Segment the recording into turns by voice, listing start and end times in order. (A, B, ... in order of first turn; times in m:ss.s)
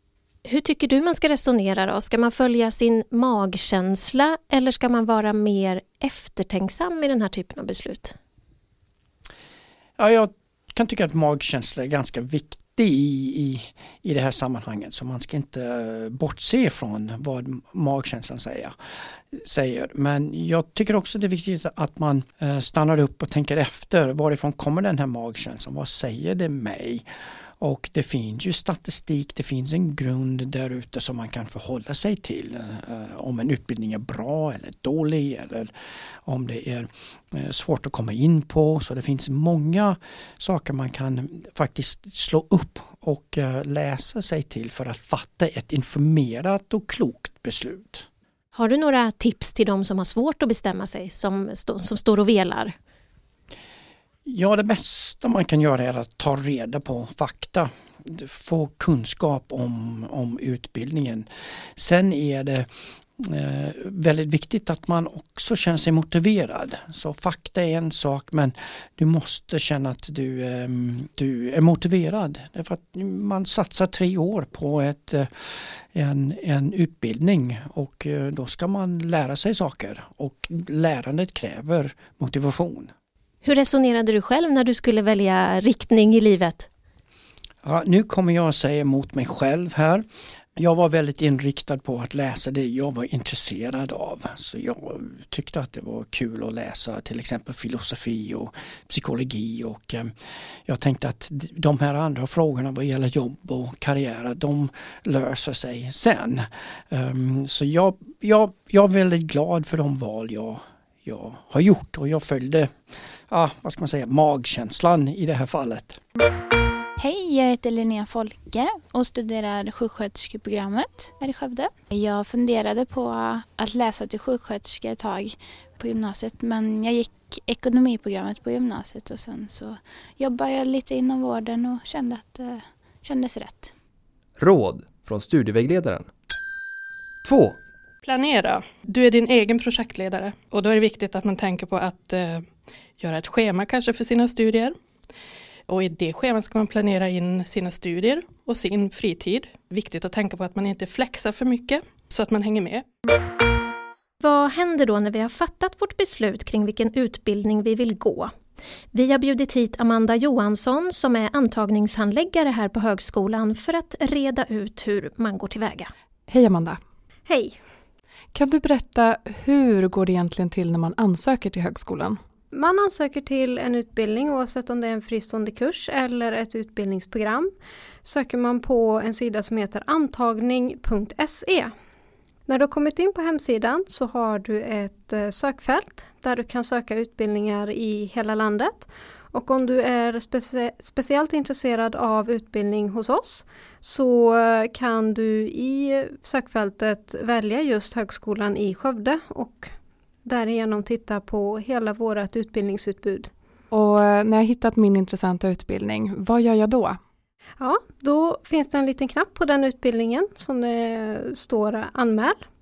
0:00.4-0:08.2 A
0:10.0-0:18.7 B
0:19.3-0:27.0 B
0:27.6-0:35.7 B
0:36.2-0:48.0 B
0:48.5-0:52.7 A
0:54.2-1:01.2 B
1:01.8-1:02.7 B
1:03.2-1:22.9 B
1:23.4-1:26.7 A
1:27.6-1:30.0 B
1:30.6-1:40.1 B
1:40.6-1:52.7 B
1:53.3-1:56.0 B
1:57.0-2:13.7 C
2:14.4-2:16.1 D
2:17.2-2:17.6 D
2:18.0-2:22.4 E
2:23.0-2:24.7 E
2:25.7-2:32.8 E
2:34.2-2:38.3 A
2:38.9-2:45.9 A
2:46.3-2:46.8 F
2:47.2-2:47.6 G
2:48.3-2:52.2 F
2:52.5-2:57.5 G
2:58.0-3:01.7 G
3:02.5-3:19.7 G
3:20.2-3:23.3 G
3:23.7-3:27.0 F
3:27.6-3:32.4 G